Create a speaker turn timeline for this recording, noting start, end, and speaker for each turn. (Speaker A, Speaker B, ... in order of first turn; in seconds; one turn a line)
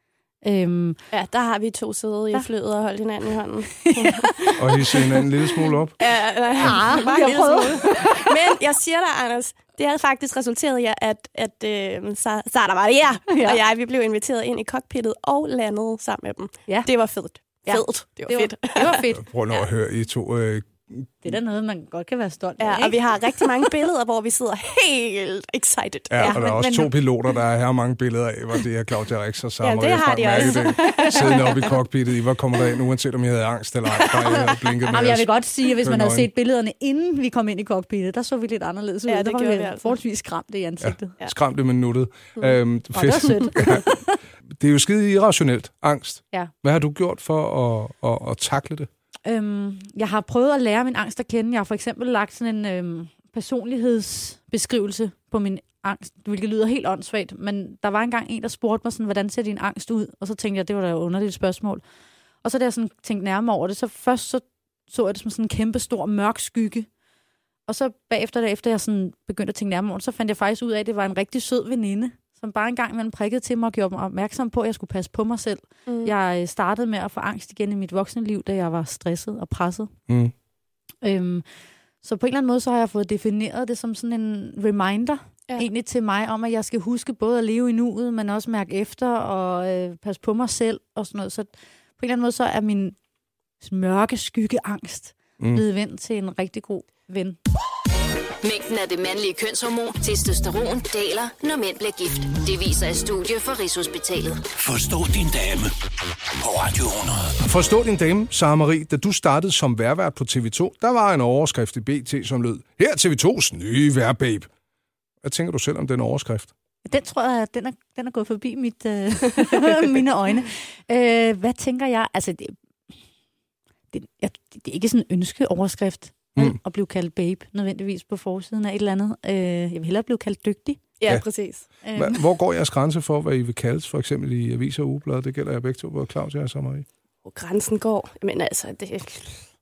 Speaker A: 0.4-1.0
Speaker B: 1.1-19.0
Speaker A: 3.9-4.5
Speaker C: 4.5-5.9
Speaker A: 6.6-8.3
Speaker A: 13.3-13.6
Speaker A: 17.6-19.2
Speaker C: 19.1-21.3
Speaker A: 21.2-23.6
Speaker B: 22.6-26.4
Speaker C: 26.1-35.3
Speaker A: 26.2-26.9
Speaker B: 29.6-31.7
Speaker A: 30.1-31.6
Speaker B: 33.9-34.8
Speaker A: 34.9-41.2
Speaker C: 35.8-36.3
Speaker B: 39.1-40.0
Speaker C: 40.8-43.8
Speaker A: 42.9-44.2
Speaker C: 44.5-48.9
Speaker A: 49.2-61.8
Speaker A: 62.4-66.9
Speaker A: 67.7-79.9
Speaker B: 75.9-76.1
Speaker C: 80.1-80.3
Speaker A: 81.0-81.4
Speaker A: 82.0-93.0
Speaker A: 93.6-97.4
Speaker D: 98.4-104.4
Speaker E: 104.6-105.7
Speaker E: 106.4-107.3
Speaker C: 107.4-114.5
Speaker C: 115.2-116.5
Speaker A: 116.8-122.5
Speaker A: 123.9-130.8
Speaker B: 131.0-131.7
Speaker A: 131.8-132.2
Speaker C: 131.9-136.8
Speaker B: 137.2-139.4